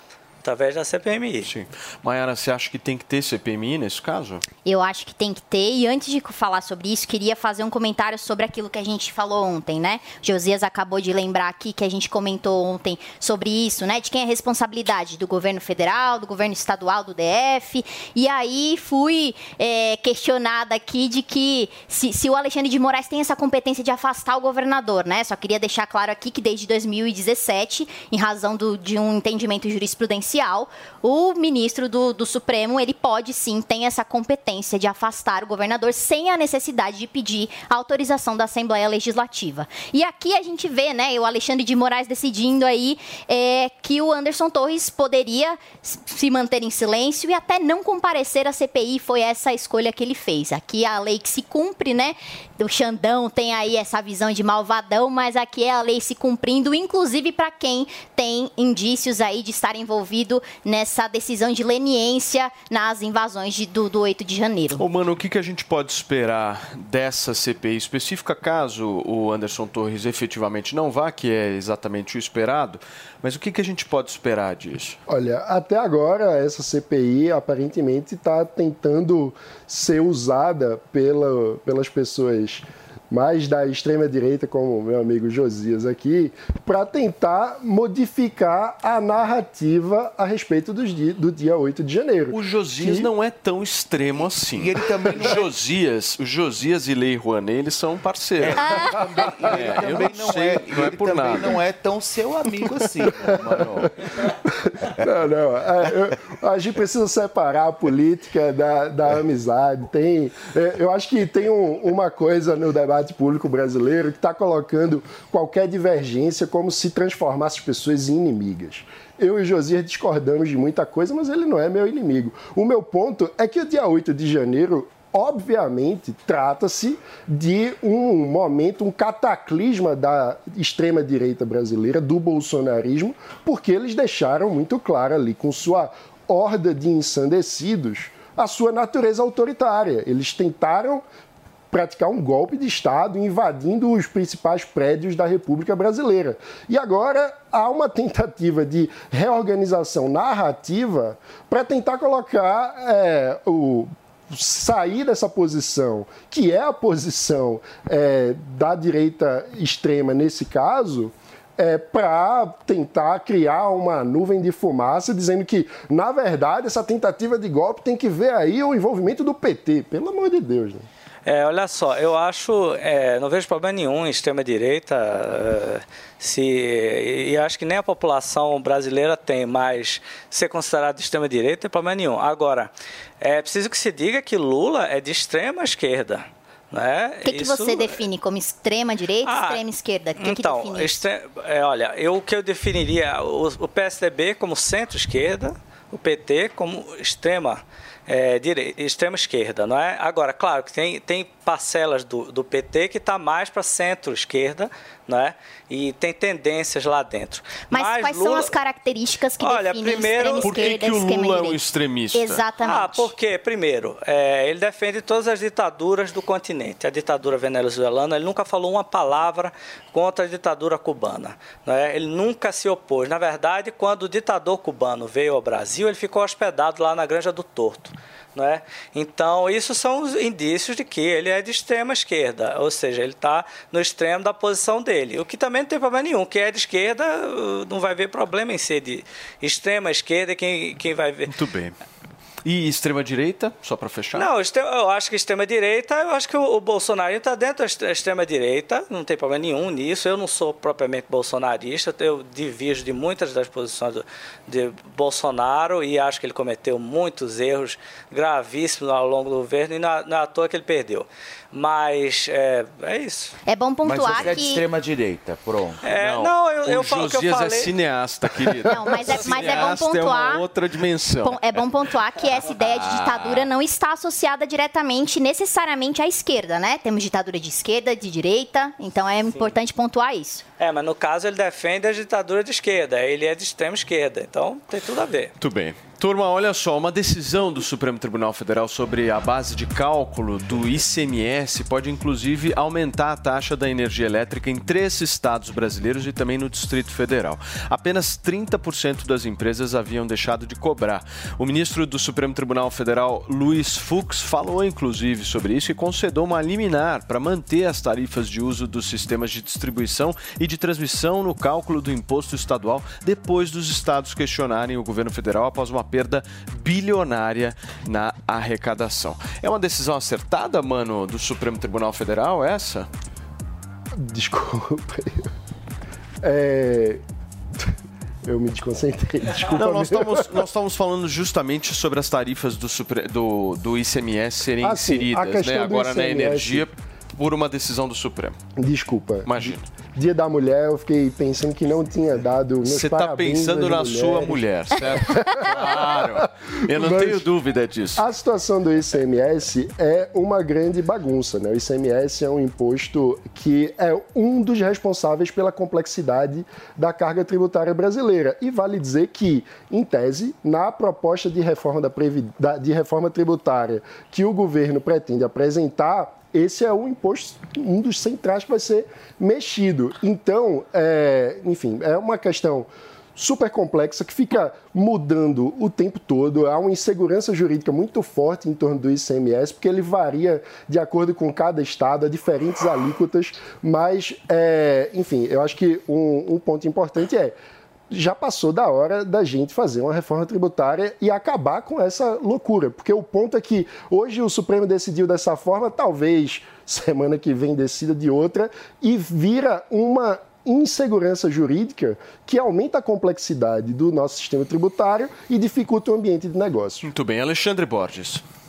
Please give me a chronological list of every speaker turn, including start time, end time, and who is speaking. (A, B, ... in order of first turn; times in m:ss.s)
0:00.4-0:01.5 A
0:01.4-0:04.4 B
0:04.6-1:04.8 C
1:04.8-1:15.0 B
1:15.1-1:33.1 D
1:32.3-1:41.6 B
1:34.5-1:35.5 E
1:38.4-1:43.9 E
1:38.6-1:38.9 C
1:43.0-1:43.9 D
1:45.0-2:21.0 D
2:21.7-2:50.9 D
2:51.2-3:08.0 A
3:07.2-3:11.0 C
3:09.2-3:09.6 A
3:10.2-3:28.5 A
3:27.7-3:31.6 C
3:29.4-3:30.6 A
3:30.4-3:32.4 B
3:32.1-3:33.1 C
3:32.6-4:01.3 A
4:01.3-4:01.8 B
4:02.4-4:04.3 B
4:04.1-4:23.3 A
4:23.5-4:24.6 C
4:23.8-4:25.8 E
4:25.8-4:27.7 A
4:26.0-4:31.6 B
4:28.6-4:30.4 C
4:31.2-4:40.4 C
4:32.4-4:33.5 E
4:40.6-4:45.3 A
4:45.4-5:22.9 B
5:24.0-5:25.2 D
5:26.2-5:27.0 D
5:28.2-5:30.3 D
5:29.4-5:38.4 B
5:34.6-5:36.7 D
5:38.6-5:47.2 D
5:39.2-5:39.6 B
5:42.6-5:48.0 B
5:48.0-6:27.4 D
6:27.9-6:46.8 D
6:46.8-6:48.2 B